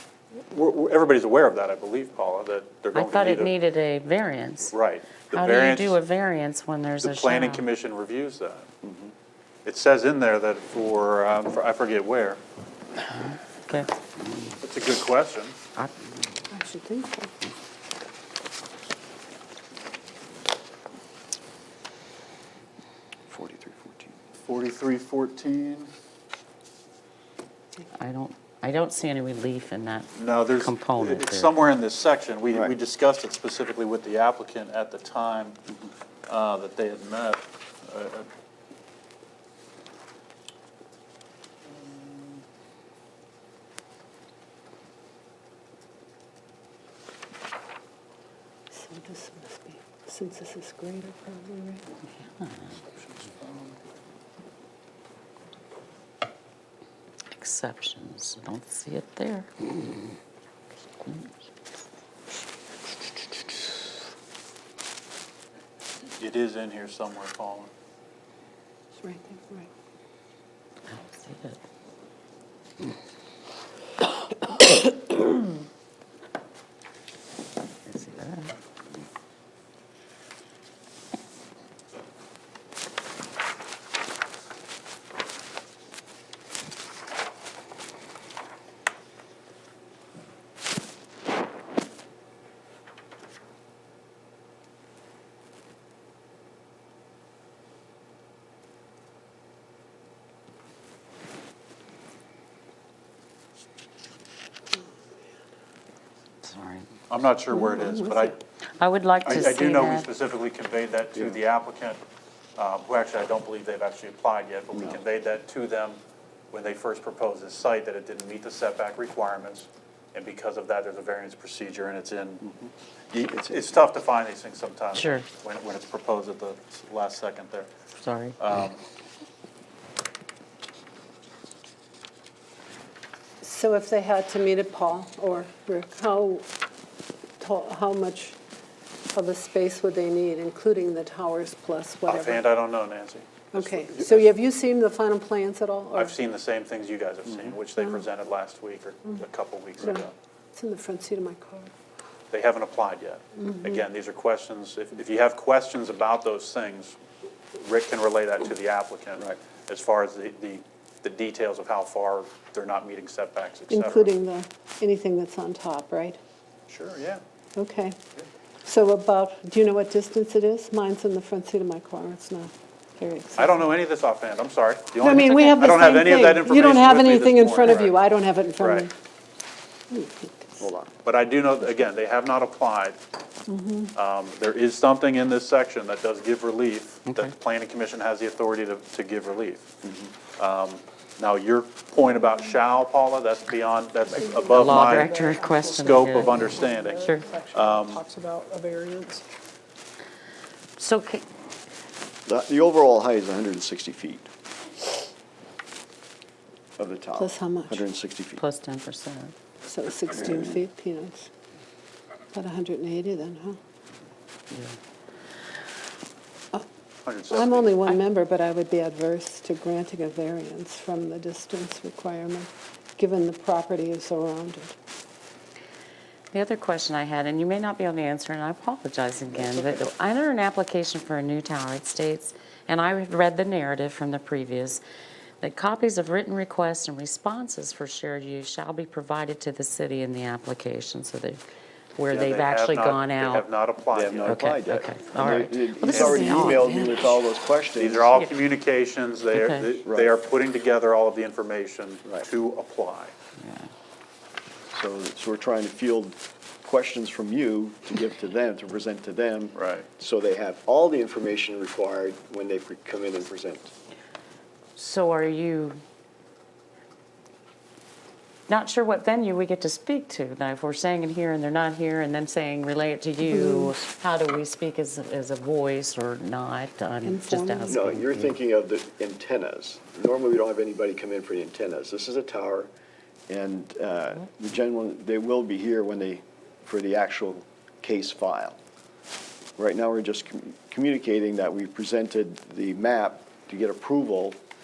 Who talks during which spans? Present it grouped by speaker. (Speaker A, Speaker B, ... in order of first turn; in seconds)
Speaker A: 0.3-3.5, 4.7-6.0, 7.0-8.7, 9.6-12.4, 14.6-15.6, 24.4-25.9, 30.1-35.6, 36.3-38.3, 41.7-42.4, 52.7-53.8, 66.1-67.7, 107.1-108.4, 109.2-112.0, 112.6-116.0, 116.5-122.4, 123.1-127.7, 128.4-128.8, 142.1-144.2, 145.9-150.1, 152.3-157.0, 157.5-164.2, 166.7-167.2, 173.3-178.0, 178.6-178.9, 181.0-183.0, 183.9-189.7, 190.4-195.1, 195.7-198.0, 217.0-217.8, 242.1-244.4, 245.8-246.6, 247.8-253.1, 259.5-259.9
Speaker B: 2.9-4.7, 5.3-7.7, 13.1-14.5, 27.9-31.6, 57.4-59.5, 70.9-71.6, 77.8-78.5, 106.4-106.9, 108.3-110.1, 124.9-125.2, 128.0-128.4, 187.1-187.3, 194.5-197.3, 200.8-201.2, 208.4-209.3, 214.5-214.8, 226.3-234.8, 235.4-241.4, 242.0-243.4, 244.2-247.2, 249.3-249.7, 253.4-253.7, 264.8-265.8, 268.5-278.3
Speaker C: 8.8-9.1, 23.3-24.1, 114.7-115.0, 122.4-123.6, 180.6-180.9, 202.2-204.3, 206.8-208.4, 229.3-229.9, 243.9-248.1, 249.8-250.1, 254.7-263.7, 277.7-282.7, 283.3-288.6, 289.6-294.4
Speaker D: 16.5-17.3, 48.7-51.8, 69.0-69.7, 107.7-108.3, 133.4-136.4, 137.4-138.4, 139.1-142.5, 143.5-146.2, 149.8-151.7, 163.7-166.2, 167.6-168.0, 168.6-173.7, 174.9-178.9, 179.9-180.6, 183.5-183.9, 207.2-207.8, 209.7-211.3, 212.3-213.6, 217.3-224.8, 273.2-273.8, 277.0-277.9
Speaker E: 194.2-199.2